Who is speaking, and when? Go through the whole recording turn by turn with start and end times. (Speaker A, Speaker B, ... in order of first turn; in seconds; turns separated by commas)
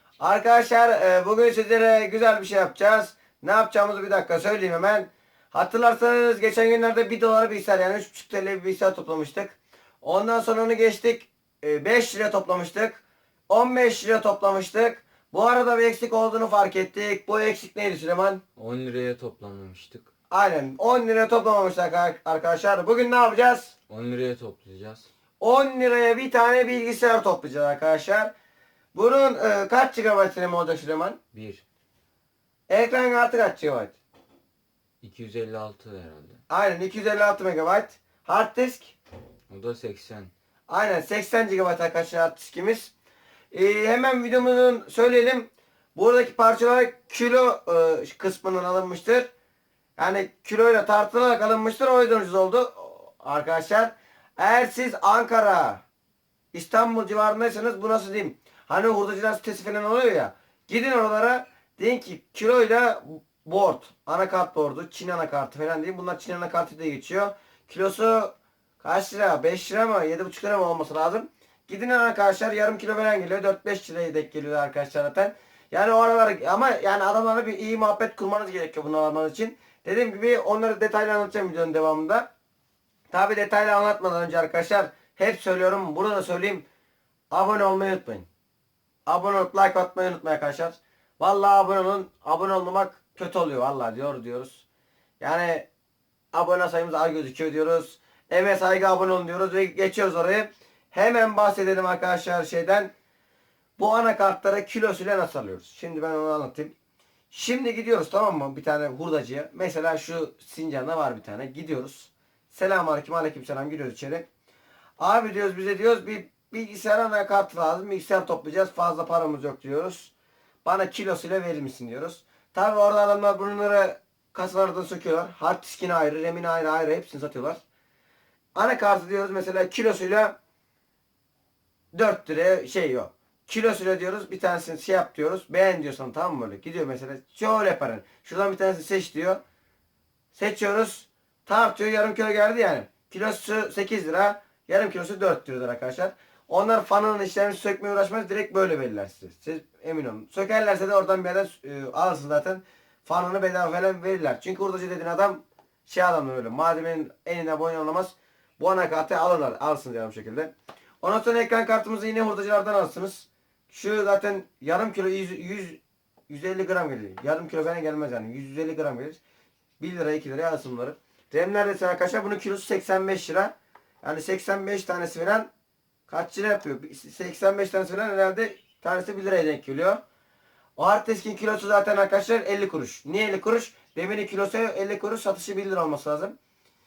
Speaker A: 0.2-18.4, Speaker B: 18.6-20.1, Speaker A: 20.3-23.7, Speaker B: 23.9-25.1, Speaker A: 25.4-28.3, Speaker A: 28.9-31.2, Speaker B: 31.3-31.6, Speaker A: 32.7-34.0, Speaker B: 35.0-36.4, Speaker A: 36.5-39.0, Speaker B: 39.5-40.3, Speaker A: 40.7-42.9, Speaker A: 43.5-49.3, Speaker A: 50.0-55.8, Speaker A: 56.5-82.3, Speaker A: 83.1-86.7, Speaker A: 87.3-88.3, Speaker A: 89.1-94.6, Speaker A: 95.2-95.7, Speaker A: 96.3-102.9, Speaker A: 103.8-106.7, Speaker A: 107.3-114.3, Speaker A: 115.0-120.1, Speaker A: 120.6-127.6, Speaker A: 128.6-130.4, Speaker A: 131.9-139.4, Speaker A: 140.3-169.2, Speaker A: 169.8-175.5, Speaker A: 176.1-180.0, Speaker A: 180.8-186.4